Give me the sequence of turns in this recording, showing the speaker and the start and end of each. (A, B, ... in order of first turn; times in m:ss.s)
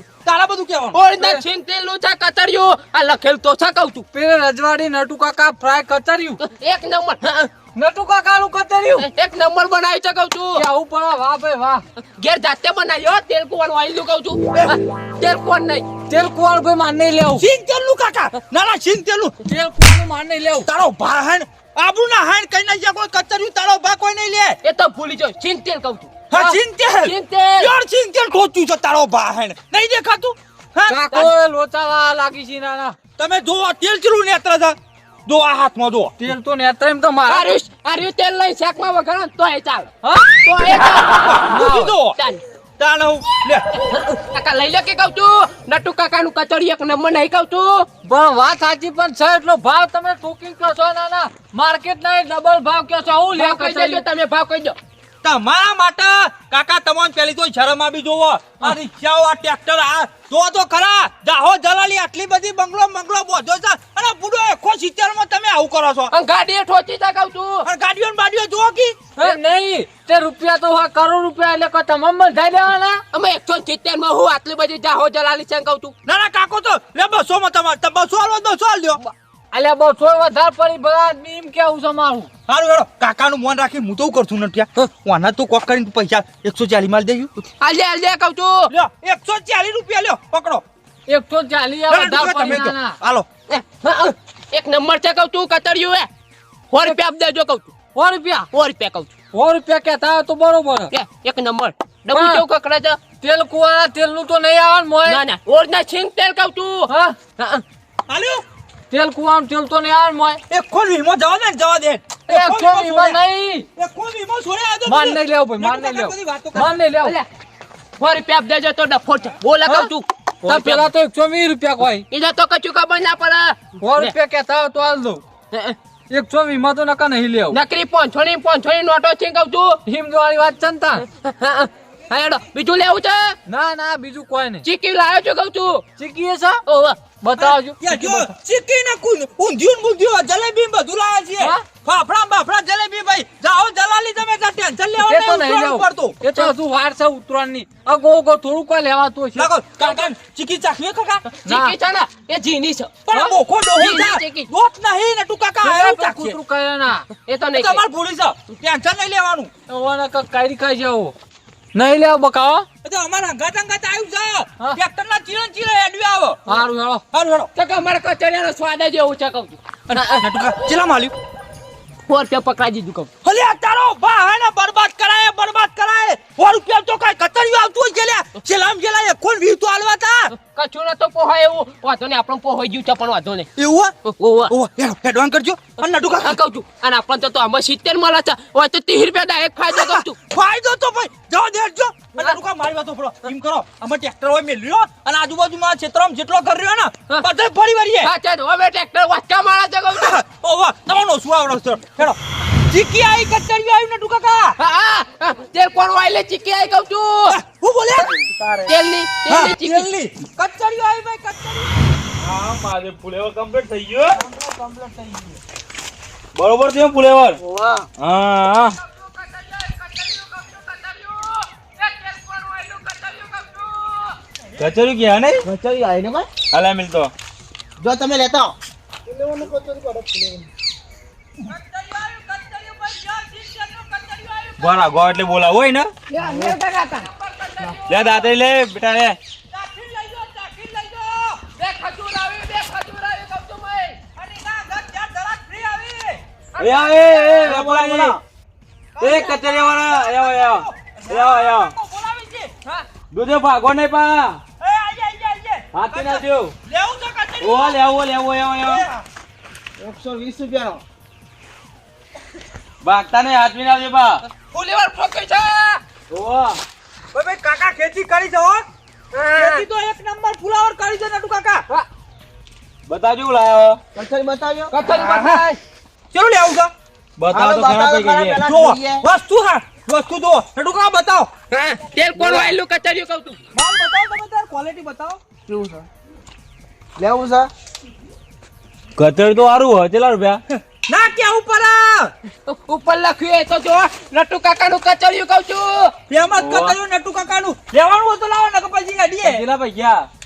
0:00.2-0:01.0 A
0:00.9-0:04.0 B
0:04.1-0:06.4 C
0:06.4-0:07.5 B
0:07.7-0:09.0 C
0:09.0-0:10.6 B
0:10.6-0:11.8 C
0:12.2-0:15.8 B
0:16.1-0:17.4 C
0:17.3-0:19.3 A
0:19.4-0:20.7 C
0:20.6-0:24.6 A
0:24.6-0:26.1 B
0:26.3-0:31.0 A
0:26.3-0:26.6 C
0:27.0-0:27.7 B
0:30.9-0:33.0 C
0:33.2-0:34.8 A
0:35.3-0:36.1 A
0:36.2-0:37.5 C
0:37.3-0:41.4 B
0:40.0-0:40.4 C
0:41.2-0:42.2 A
0:41.5-0:41.9 C
0:42.1-0:42.4 B
0:42.8-0:43.6 A
0:43.9-0:47.9 B
0:48.0-0:54.0 C
0:53.3-0:54.8 B
0:55.2-1:06.1 A
1:06.1-1:07.6 B
1:07.6-1:09.0 A
1:09.2-1:13.0 C
1:13.1-1:15.9 B
1:16.0-1:19.0 A
1:19.5-1:22.3 C
1:22.5-1:27.3 A
1:27.6-1:28.7 B
1:28.7-1:30.6 A
1:31.1-1:33.0 C
1:31.9-1:33.2 A
1:33.5-1:36.1 B
1:36.7-1:37.7 B
1:37.9-1:38.5 C
1:38.5-1:39.1 B
1:39.3-1:40.9 C
1:40.9-1:43.0 B
1:42.1-1:42.4 C
1:43.2-1:45.2 C
1:45.0-1:47.6 B
1:46.9-1:47.2 C
1:48.1-1:48.4 A
1:48.9-1:50.4 C
1:50.5-1:53.2 A
1:52.3-1:53.7 C
1:53.8-1:56.7 A
1:54.8-1:57.1 C
1:58.0-2:00.9 B
2:00.4-2:02.0 C
2:02.1-2:04.1 B
2:03.8-2:05.2 C
2:06.1-2:07.6 C
2:07.5-2:09.8 B
2:09.8-2:11.0 C
2:11.2-2:13.4 B
2:13.5-2:14.6 C
2:14.6-2:15.8 B
2:16.0-2:16.6 C
2:16.7-2:17.0 B
2:17.2-2:18.3 C
2:17.4-2:26.5 A
2:21.4-2:21.6 C
2:25.0-2:29.5 C
2:29.3-2:31.3 A
2:29.8-2:30.1 B
2:31.4-2:34.5 B
2:31.4-2:31.7 C
2:33.1-2:36.4 A
2:35.6-2:37.1 C
2:37.3-2:37.8 B
2:37.5-2:39.5 A
2:39.7-2:41.1 C
2:41.7-2:42.6 C
2:42.8-2:46.4 A
2:46.5-2:47.0 C
2:47.1-2:47.5 A
2:47.5-2:50.5 B
2:49.9-2:51.1 A
2:52.1-2:53.1 B
2:53.2-3:00.3 A
3:00.3-3:03.5 B
3:03.6-3:03.9 A
3:04.0-3:04.5 B
3:04.5-3:06.4 A
3:06.2-3:10.2 B
3:09.7-3:18.1 A
3:18.0-3:20.2 B
3:19.9-3:24.6 A
3:24.6-3:27.4 B
3:27.3-3:28.3 A
3:28.7-3:29.9 B
3:29.3-3:31.9 A
3:32.2-3:34.2 D
3:34.4-3:35.3 E
3:36.4-3:37.4 D
3:37.5-3:37.8 B
3:38.0-3:38.8 D
3:38.8-3:44.2 B
3:44.6-3:45.4 D
3:45.4-3:46.4 E
3:46.4-3:47.1 D
3:47.8-3:48.5 E
3:49.1-3:50.5 E
3:51.5-3:54.8 A
3:54.6-3:55.9 D
3:56.1-3:58.3 B
3:56.2-3:56.5 E
3:57.9-3:59.2 D
3:59.5-4:01.4 A
4:01.6-4:04.0 B
4:04.2-4:06.2 A
4:06.6-4:07.6 B
4:06.6-4:08.2 D
4:07.4-4:08.2 E
4:07.4-4:08.2 A
4:09.0-4:12.5 A
4:09.0-4:11.7 D
4:13.1-4:14.4 D
4:14.6-4:17.8 A
4:15.7-4:16.5 D
4:17.4-4:18.8 D
4:18.6-4:19.0 A
4:19.8-4:20.8 E
4:22.8-4:24.2 D
4:24.4-4:25.8 B
4:26.1-4:26.6 D
4:27.1-4:28.6 A
4:29.1-4:29.6 B
4:29.4-4:31.6 A
4:32.9-4:33.8 D
4:34.0-4:34.7 E
4:34.7-4:35.6 B
4:34.9-4:35.4 A
4:36.1-4:36.7 A
4:37.2-4:38.4 D
4:37.3-4:39.0 E
4:38.4-4:41.3 A
4:41.5-4:43.4 B
4:42.2-4:42.5 A
4:43.5-4:45.2 A
4:45.5-4:45.9 E
4:47.0-4:47.5 E
4:49.0-4:50.4 D
4:50.5-4:52.1 A
4:52.5-4:55.9 B
4:56.1-4:59.4 A
4:56.4-4:56.8 D
4:59.2-5:00.1 D